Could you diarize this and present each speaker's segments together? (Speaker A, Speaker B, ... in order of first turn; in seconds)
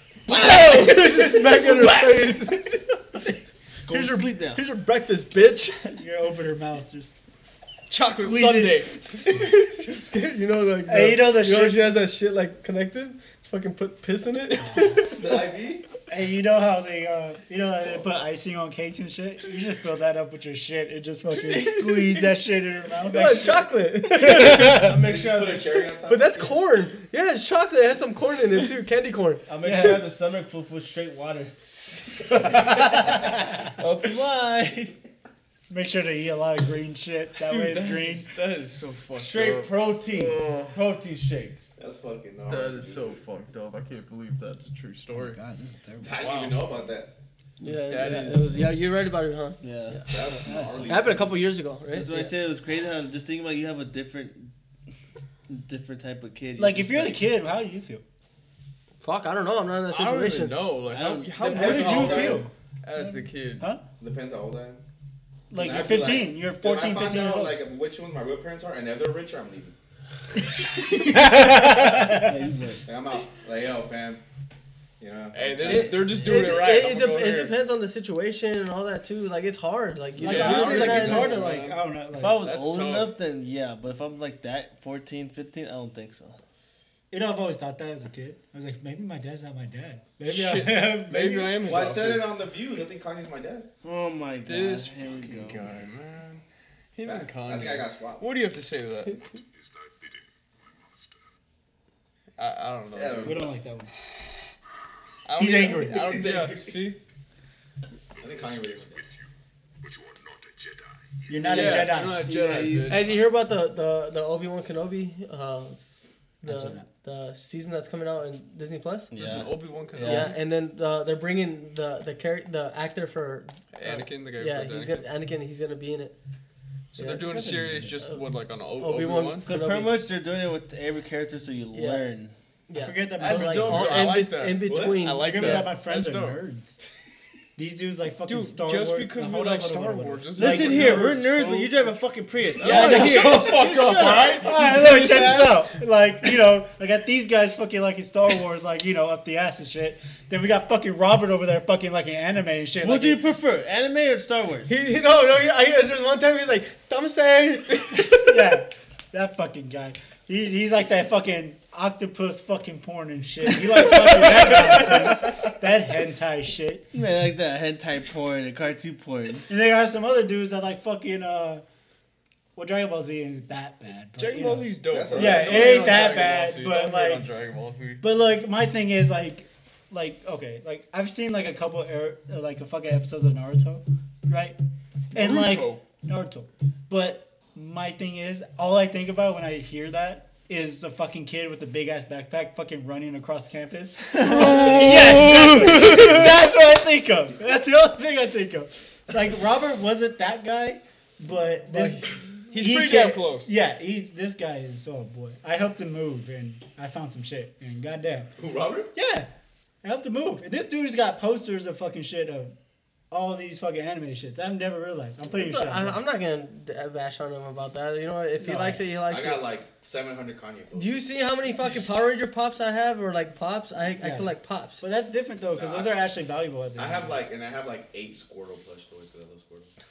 Speaker A: 0.3-2.9, 3.9-5.8, 9.3-15.4, 23.1-24.9, 26.1-30.0, 47.6-50.1, 50.9-52.3, 59.0-60.6, 75.7-81.4, 112.9-119.1, 120.0-126.2, 127.0-127.3, 128.8-130.1, 131.7-132.0, 132.7-135.7, 154.7-158.4, 163.8-164.5, 194.2-196.1, 201.7-202.0, 215.3-219.5, 220.8-224.8
Speaker B: 3.9-4.6, 24.2-25.9, 29.5-35.0, 39.1-41.6, 49.6-50.6, 51.9-54.5, 55.5-57.2, 60.9-62.3, 72.1-72.9, 82.1-86.4, 93.8-95.8, 112.3-113.0, 119.1-120.4, 127.3-127.8, 129.4-132.3, 140.4-145.5, 152.8-154.8, 166.9-169.5
Speaker C: 5.8-7.1, 8.2-8.9, 10.9-11.9, 16.1-23.7, 24.3-24.7, 29.6-30.0, 32.5-33.2, 35.7-38.3, 45.1-46.2, 50.5-50.9, 56.6-58.0, 61.5-63.8, 65.5-67.6, 70.6-72.4, 80.2-82.4, 87.1-91.7, 103.2-103.9, 105.4-106.1, 111.3-112.4, 116.4-116.9, 132.8-134.2, 135.2-136.8, 137.6-141.2, 142.6-143.7, 144.4-153.2, 158.0-166.9, 169.5-171.6, 172.6-177.3, 178.0-184.6, 185.1-208.3, 208.9-209.3, 209.8-212.5, 213.1-216.0, 218.4-218.8, 224.0-227.2
Speaker D: 7.9-9.3, 21.5-22.2, 37.4-40.8, 42.5-45.4, 46.2-46.6, 47.9-48.6, 59.9-63.7, 75.3-77.5, 80.2-81.8, 82.4-83.1, 90.3-92.3, 94.5-96.4, 97.0-99.2, 102.4-103.4, 105.2-107.0, 111.4-113.2, 119.2-120.4, 123.7-125.1, 127.0-129.5, 133.2-136.4, 138.3-141.9, 142.6-145.6, 174.2-178.0, 185.1-185.8, 202.5-203.5
Speaker E: 15.1-15.9, 24.8-26.6, 41.8-43.2, 46.0-47.1, 50.1-51.4, 61.5-62.5, 64.0-64.8, 65.5-69.7, 72.8-74.2, 75.0-76.3, 91.6-93.7, 97.0-98.3, 102.9-103.5, 105.8-106.8, 108.2-109.1, 134.7-135.1, 174.9-176.5, 208.4-208.9, 219.1-221.0, 225.5-225.9, 226.8-229.7